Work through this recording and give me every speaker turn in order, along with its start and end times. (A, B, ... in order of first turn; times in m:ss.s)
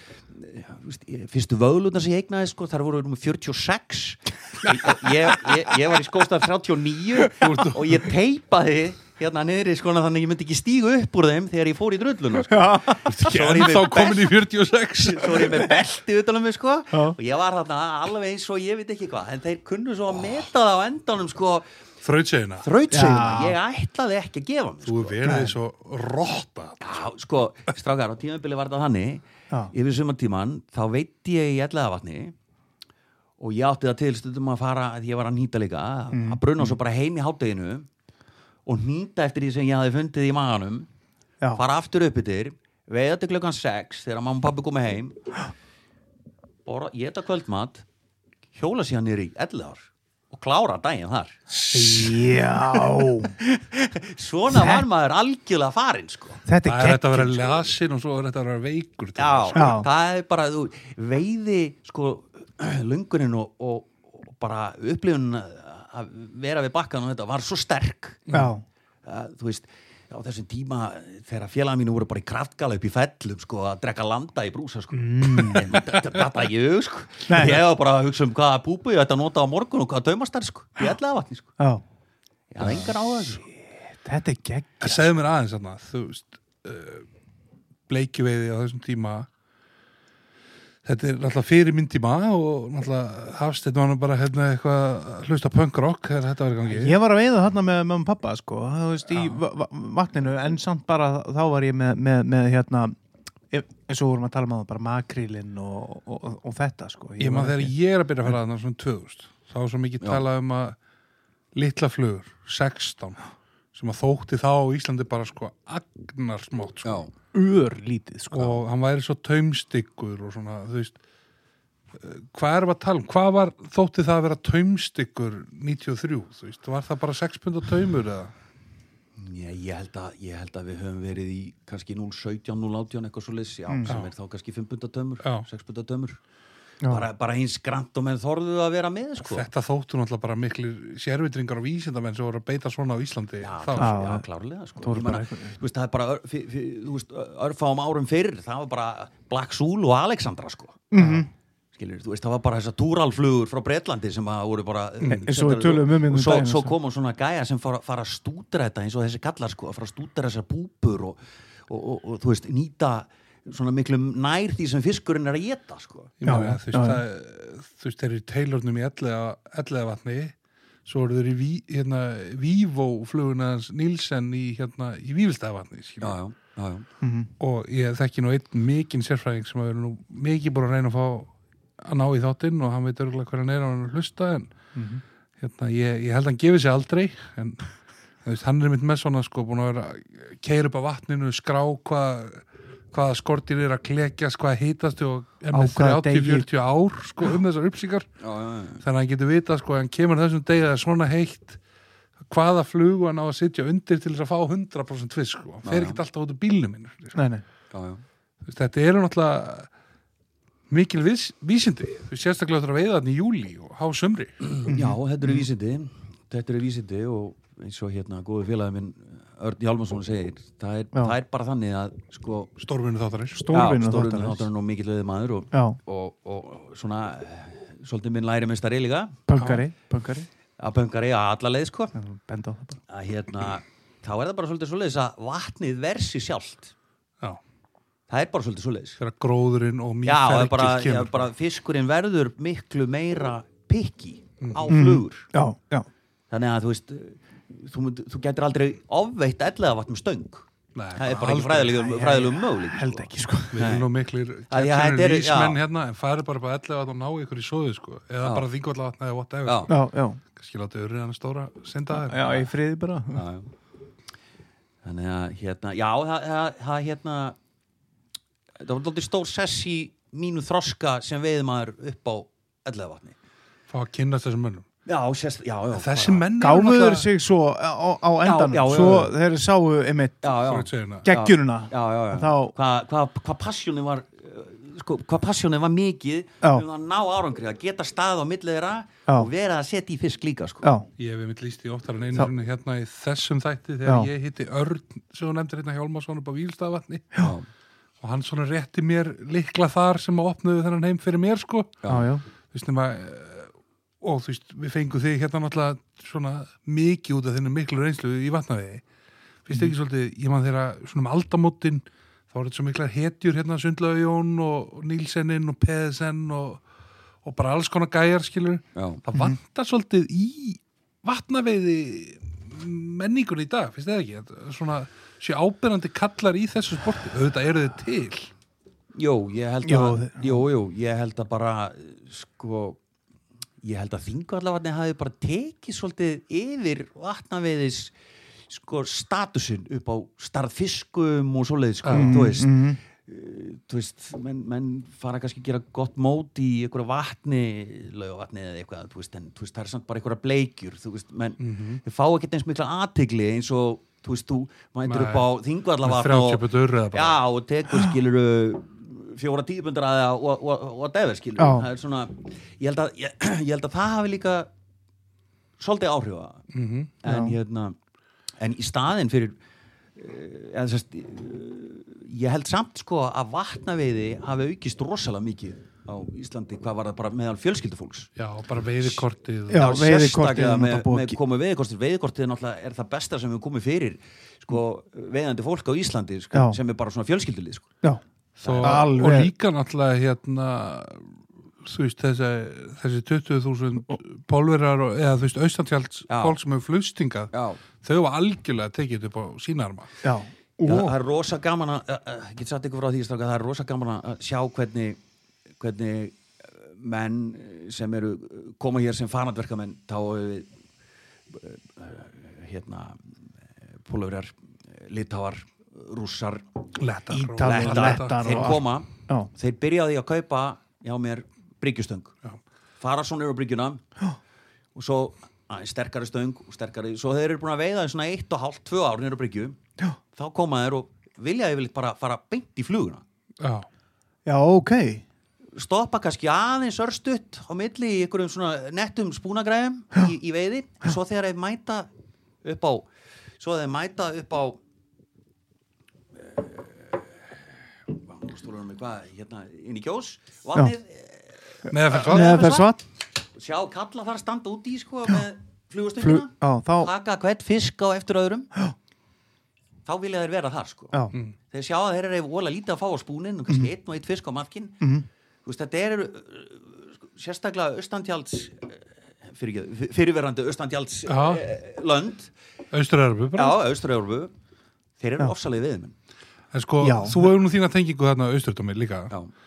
0:00.3-0:14.4 A
0:07.3-0:08.0 B
0:12.4-0:13.1 C
0:13.1-0:15.7 B
0:15.0-0:21.6 A
0:16.9-0:17.2 C
0:22.0-0:22.7 B
0:22.6-0:25.2 A
0:22.9-0:23.6 C
0:24.8-0:27.0 B
0:25.2-0:25.5 C
0:26.8-0:32.3 A
0:33.4-0:37.9 A
0:36.1-0:36.7 C
0:38.6-0:40.9 A
0:41.5-0:45.2 A
0:46.6-0:47.8 A
0:48.5-0:51.4 A
0:51.5-0:52.2 B
0:51.7-0:53.4 C
0:53.4-0:56.4 A
0:54.5-0:54.8 C
0:56.4-0:57.4 C
0:56.6-0:59.8 B
0:59.2-1:08.2 A
0:59.5-0:59.9 C
1:08.3-1:08.6 C
1:09.0-1:21.5 A
1:14.9-1:15.8 C
1:17.3-1:17.7 C
1:22.5-1:23.4 A
1:23.6-1:25.0 C
1:24.8-1:27.1 B
1:27.9-1:29.3 B
1:30.8-1:36.9 B
1:36.7-1:43.0 C
1:43.5-1:47.7 C
1:47.2-1:50.8 B
1:51.5-1:53.2 B
1:53.7-1:57.0 B
1:56.8-1:57.1 A
1:57.3-1:58.6 C
1:58.3-2:01.0 B
2:02.0-2:08.3 B
2:09.2-2:16.2 A
2:13.7-2:13.9 C
2:16.8-2:17.1 C
2:16.9-2:19.5 A
2:19.2-2:24.0 B
2:23.4-2:31.2 A
2:23.8-2:24.2 C
2:24.8-2:25.6 C
2:30.9-2:31.3 C
2:31.7-2:46.1 A
2:35.1-2:36.7 C
2:46.2-2:50.3 B
2:46.2-2:47.0 C
2:50.8-2:56.2 B
2:56.0-2:56.8 A
2:57.0-2:57.3 C
2:57.4-3:01.3 B
3:01.8-3:04.5 B
3:04.7-3:05.0 C
3:05.4-3:07.7 B
3:08.2-3:18.1 B
3:15.5-3:16.5 C
3:18.2-3:18.8 A
3:18.8-3:21.6 B
3:22.3-3:27.2 B
3:25.6-3:26.0 A
3:27.1-3:27.4 C
3:27.7-3:28.0 A
3:28.4-3:29.7 B
3:30.7-3:34.4 B
3:34.4-3:42.5 A
3:34.7-3:35.0 C
3:42.6-3:43.4 B
3:43.3-3:44.5 C
3:43.5-3:49.2 A
3:45.5-3:45.8 C
3:49.3-3:50.3 C
3:49.4-3:49.6 B
3:50.6-3:51.9 A
3:51.9-3:52.8 C
3:52.9-3:56.7 A
3:58.1-3:59.0 A
3:59.0-4:01.3 B
4:00.0-4:05.3 A
4:04.4-4:04.7 B
4:04.7-4:05.9 C
4:06.3-4:13.9 A
4:10.7-4:12.0 B
4:11.9-4:13.7 C
4:13.5-4:19.8 B
4:14.5-4:15.6 A
4:19.4-4:19.7 A
4:19.7-4:20.2 C
4:20.4-4:22.4 B
4:21.9-4:23.2 C
4:23.1-4:23.5 A
4:24.8-4:27.4 A
4:28.6-4:33.2 A
4:33.7-4:34.6 B
4:34.8-4:36.2 A
4:35.7-4:37.1 B
4:36.4-4:40.3 C
4:38.2-4:39.1 A
4:38.7-4:39.0 B
4:40.2-4:50.7 A
4:40.4-4:41.1 B
4:41.0-4:42.5 C
4:51.0-4:57.2 B
4:57.2-4:57.5 A
4:58.0-5:01.8 B
5:01.9-5:02.2 C
5:02.5-5:03.5 B
5:04.0-5:08.8 B
5:09.4-5:16.6 B
5:17.2-5:28.3 B
5:18.8-5:19.0 A
5:28.9-5:32.8 A
5:29.6-5:30.4 C
5:33.6-5:37.9 A
5:38.5-6:04.5 A
5:41.8-5:42.3 B
5:41.9-5:42.8 C
5:51.4-5:51.8 B
5:54.9-5:55.3 B
5:55.8-5:57.2 B
6:01.4-6:01.7 C
6:05.6-6:06.4 A
6:06.5-6:06.9 B
6:07.0-6:07.8 A
6:07.0-6:07.4 C
6:08.4-6:09.4 A
6:10.0-6:18.1 A
6:18.2-6:19.8 B
6:19.5-6:21.2 C
6:19.5-6:27.7 A
6:28.4-6:31.1 B
6:28.4-6:28.9 A
6:28.6-6:29.3 C
6:31.6-6:39.9 B
6:36.1-6:36.4 A
6:37.3-6:37.6 A
6:40.0-6:40.9 C
6:40.6-6:45.0 A
6:45.6-6:50.5 A
6:51.3-6:53.0 A
6:53.8-6:56.4 A
6:56.8-6:58.6 B
6:57.1-6:59.3 C
6:57.4-7:02.1 A
7:02.8-7:03.8 A
7:04.7-7:09.6 A
7:10.1-7:13.0 A
7:13.4-7:13.7 B
7:14.2-7:15.0 C
7:15.5-7:21.9 A
7:22.4-7:22.9 A
7:23.4-7:24.6 A
7:26.2-7:27.2 A
7:27.9-7:32.7 A
7:31.7-7:32.5 B
7:31.9-7:32.8 C
7:33.3-7:38.5 A
7:36.0-7:36.9 C
7:39.8-7:41.0 A
7:41.5-7:44.8 A
7:44.8-7:45.0 C
7:45.4-7:52.3 A
7:51.1-7:51.4 B
7:52.7-7:53.6 B
7:53.3-7:54.3 A
7:55.0-7:55.9 A
7:56.5-7:59.1 B
7:56.8-7:57.2 C